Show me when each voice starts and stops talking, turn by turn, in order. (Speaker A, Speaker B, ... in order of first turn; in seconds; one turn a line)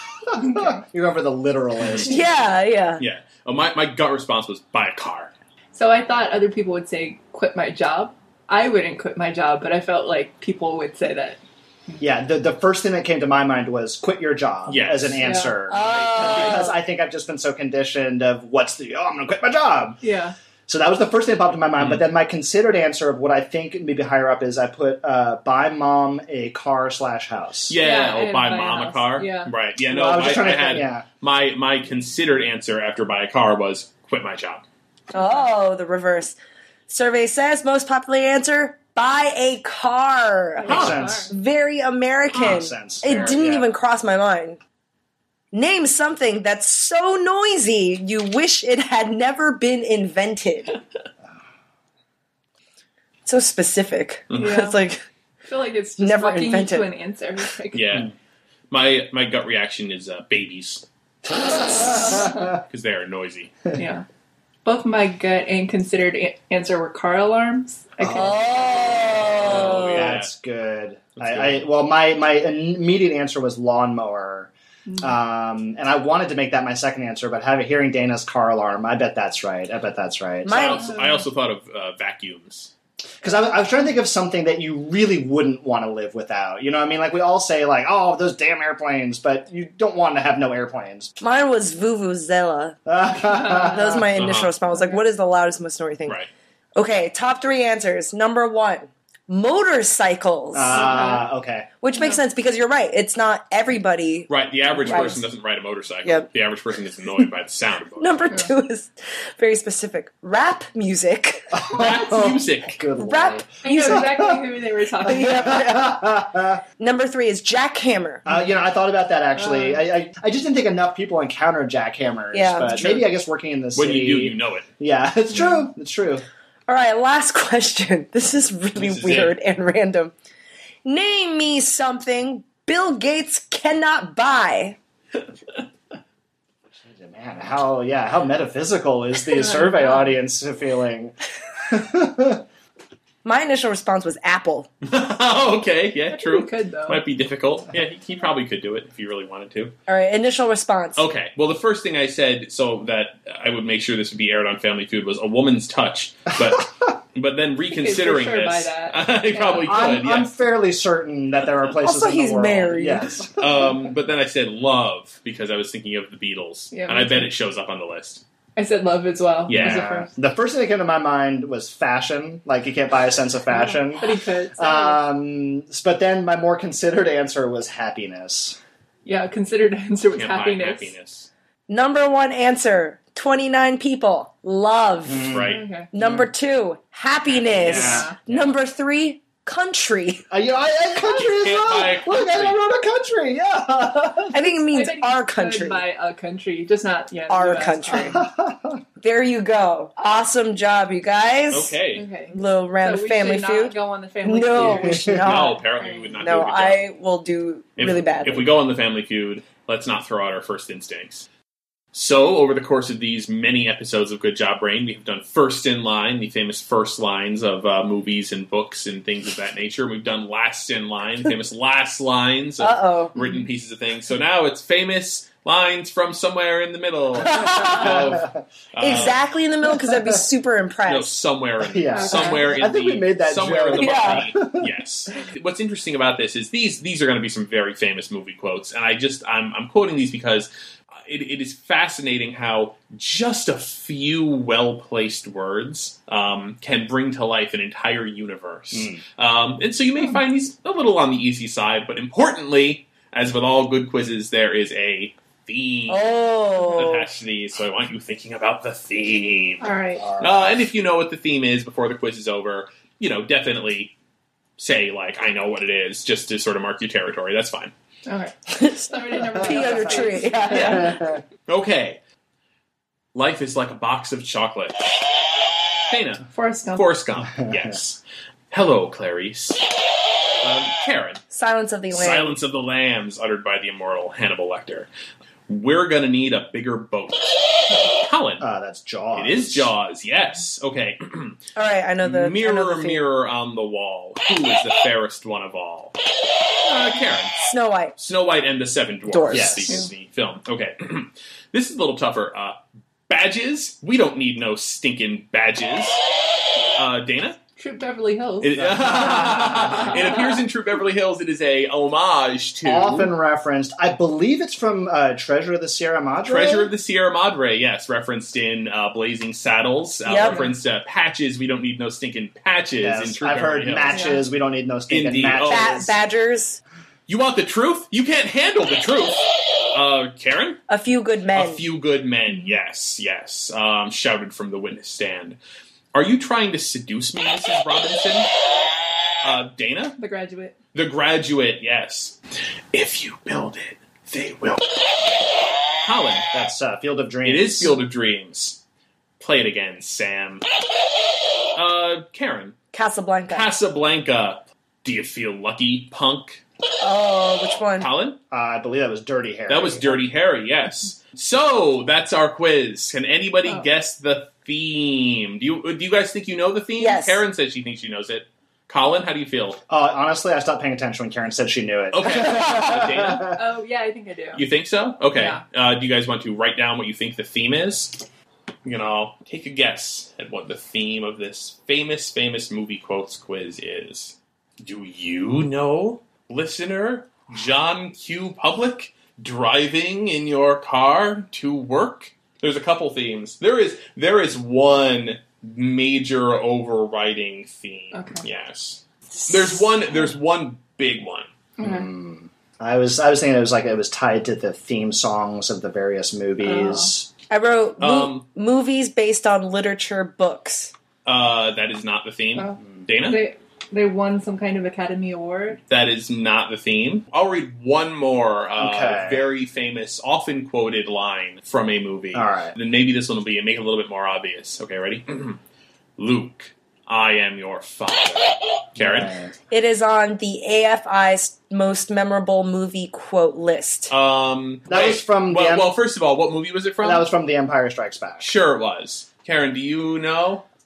Speaker A: 0.4-0.8
Speaker B: 0.4-2.2
Speaker C: 2.1-3.0
Speaker D: 3.0-5.3
Speaker A: 5.7-12.0
Speaker B: 12.0-20.0
Speaker D: 14.7-16.7
Speaker A: 15.2-15.6
Speaker C: 15.7-16.8
Speaker A: 20.0-20.4
Speaker B: 20.7-27.8
Speaker D: 21.8-22.0
Speaker D: 27.7-34.6
Speaker A: 27.8-29.5
Speaker B: 29.9-31.1
Speaker A: 35.1-35.5
Speaker C: 35.1-36.4
Speaker C: 36.9-44.6
Speaker A: 40.6-41.3
Speaker B: 40.7-41.3
Speaker D: 40.7-41.0
Speaker B: 42.3-43.7
Speaker C: 45.5-50.8
Speaker C: 53.3-55.0
Speaker A: 54.3-54.8
Speaker A: 55.5-57.8
Speaker C: 56.0-56.9
Speaker D: 57.7-58.1
Speaker D: 58.7-60.9
Speaker B: 61.7-62.4
Speaker A: 62.0-62.5
Speaker D: 62.6-63.5
Speaker A: 63.8-64.0
Speaker A: 64.7-68.4
Speaker B: 68.0-68.4
Speaker C: 68.1-70.2
Speaker D: 69.3-70.3
Speaker B: 69.4-80.8
Speaker D: 71.2-71.7
Speaker A: 74.9-75.2
Speaker C: 80.5-81.0
Speaker D: 80.5-82.7
Speaker B: 83.2-91.1
Speaker C: 91.2-92.8
Speaker B: 92.9-94.1
Speaker A: 93.3-93.7
Speaker C: 93.6-96.2
Speaker D: 94.2-94.5
Speaker A: 94.7-95.0
Speaker C: 96.8-101.1
Speaker B: 100.5-101.7
Speaker A: 100.7-101.2
Speaker C: 101.8-104.3
Speaker D: 104.3-108.4
Speaker C: 104.8-105.2
Speaker C: 108.0-111.7
Speaker B: 111.5-114.4
Speaker D: 111.7-112.8
Speaker C: 113.0-114.0
Speaker A: 113.6-115.6
Speaker C: 115.0-116.0
Speaker B: 115.1-116.6
Speaker C: 116.8-118.2
Speaker B: 118.2-126.2
Speaker A: 119.3-119.8
Speaker C: 122.3-123.0
Speaker D: 123.8-124.7
Speaker C: 126.7-130.1
Speaker D: 128.8-129.3
Speaker C: 130.8-134.8
Speaker B: 136.8-141.2
Speaker A: 139.3-140.1
Speaker B: 141.7-142.4
Speaker C: 143.2-144.7
Speaker D: 144.8-149.7
Speaker A: 146.1-147.0
Speaker C: 149.9-151.1
Speaker D: 151.0-160.3
Speaker A: 157.7-159.8
Speaker B: 159.6-163.8
Speaker C: 161.8-163.2
Speaker D: 163.4-168.2
Speaker A: 166.7-167.3
Speaker A: 168.6-170.1
Speaker D: 169.5-169.9
Speaker B: 169.5-178.6
Speaker A: 173.6-175.0
Speaker A: 179.1-180.9
Speaker D: 180.1-181.3
Speaker C: 181.7-185.3
Speaker B: 185.1-186.3
Speaker D: 185.3-186.1
Speaker A: 185.5-185.9
Speaker C: 185.9-190.2
Speaker D: 187.3-188.5
Speaker B: 187.6-188.4
Speaker A: 187.7-188.2
Speaker B: 190.3-194.5
Speaker D: 191.2-192.6
Speaker C: 194.3-195.8
Speaker A: 194.7-198.2
Speaker C: 197.3-198.2
Speaker B: 197.9-198.8
Speaker C: 199.0-201.8
Speaker D: 201.5-202.1
Speaker A: 201.9-205.1
Speaker C: 202.3-205.6
Speaker B: 204.6-205.4
Speaker D: 205.2-206.8
Speaker A: 205.7-206.2
Speaker C: 206.2-208.5
Speaker D: 207.8-211.3
Speaker D: 211.9-229.2
Speaker C: 222.6-223.1
Speaker C: 227.2-228.1
Speaker B: 227.7-228.4
Speaker C: 228.8-231.2
Speaker B: 229.7-230.2
Speaker D: 230.9-240.5
Speaker B: 231.6-234.7
Speaker A: 231.9-232.5
Speaker C: 233.8-234.3
Speaker D: 241.0-263.9
Speaker B: 248.7-249.0
Speaker C: 255.9-257.1
Speaker A: 259.6-260.1
Speaker B: 260.0-260.5
Speaker D: 264.6-267.7
Speaker A: 268.1-271.0
Speaker C: 268.5-270.9
Speaker B: 269.3-271.2
Speaker D: 270.5-270.8
Speaker D: 271.5-272.0
Speaker D: 273.1-274.9
Speaker D: 275.9-279.6
Speaker A: 276.3-276.9
Speaker B: 277.2-277.8
Speaker D: 280.4-281.2
Speaker C: 281.3-282.4
Speaker D: 281.9-284.9
Speaker D: 285.5-288.4
Speaker B: 288.4-289.7
Speaker D: 289.1-291.4
Speaker C: 291.6-293.1
Speaker D: 292.0-296.0
Speaker D: 296.6-297.3
Speaker C: 297.4-297.9
Speaker D: 298.0-306.0
Speaker C: 299.1-299.6
Speaker B: 299.3-299.9
Speaker D: 306.8-307.4
Speaker A: 307.6-310.4
Speaker D: 308.4-313.1
Speaker B: 308.6-310.2
Speaker B: 312.6-316.7
Speaker D: 316.3-324.0
Speaker C: 320.1-320.5
Speaker B: 322.8-325.9
Speaker A: 323.9-324.2
Speaker D: 324.9-325.9
Speaker C: 325.5-326.6
Speaker D: 327.1-330.6
Speaker C: 330.7-331.7
Speaker D: 331.3-335.4
Speaker D: 335.9-338.3
Speaker D: 339.2-340.0
Speaker A: 340.0-340.6
Speaker D: 340.7-342.2
Speaker D: 342.7-346.3
Speaker B: 346.3-347.8
Speaker D: 347.2-348.6
Speaker D: 349.2-350.4
Speaker D: 351.6-352.6
Speaker C: 352.7-353.5
Speaker D: 353.3-356.4
Speaker C: 356.8-357.9
Speaker D: 357.8-358.2
Speaker B: 358.3-360.0
Speaker D: 359.5-369.6
Speaker C: 366.8-367.2
Speaker B: 369.7-373.4
Speaker D: 371.9-373.3
Speaker C: 372.1-372.7
Speaker A: 373.3-374.4
Speaker D: 374.4-378.1
Speaker A: 375.1-375.4
Speaker D: 378.6-401.3
Speaker A: 397.9-398.2
Speaker A: 401.6-401.9
Speaker B: 401.6-407.1
Speaker A: 406.4-406.9
Speaker C: 407.3-410.7
Speaker D: 407.8-408.3
Speaker D: 411.1-413.2
Speaker A: 412.4-415.6
Speaker D: 415.7-425.4
Speaker B: 418.6-419.2
Speaker B: 422.1-422.5
Speaker D: 426.0-429.1
Speaker B: 428.8-429.3
Speaker C: 429.5-433.9
Speaker D: 433.9-437.1
Speaker B: 434.7-435.7
Speaker B: 436.8-438.3
Speaker D: 438.2-440.5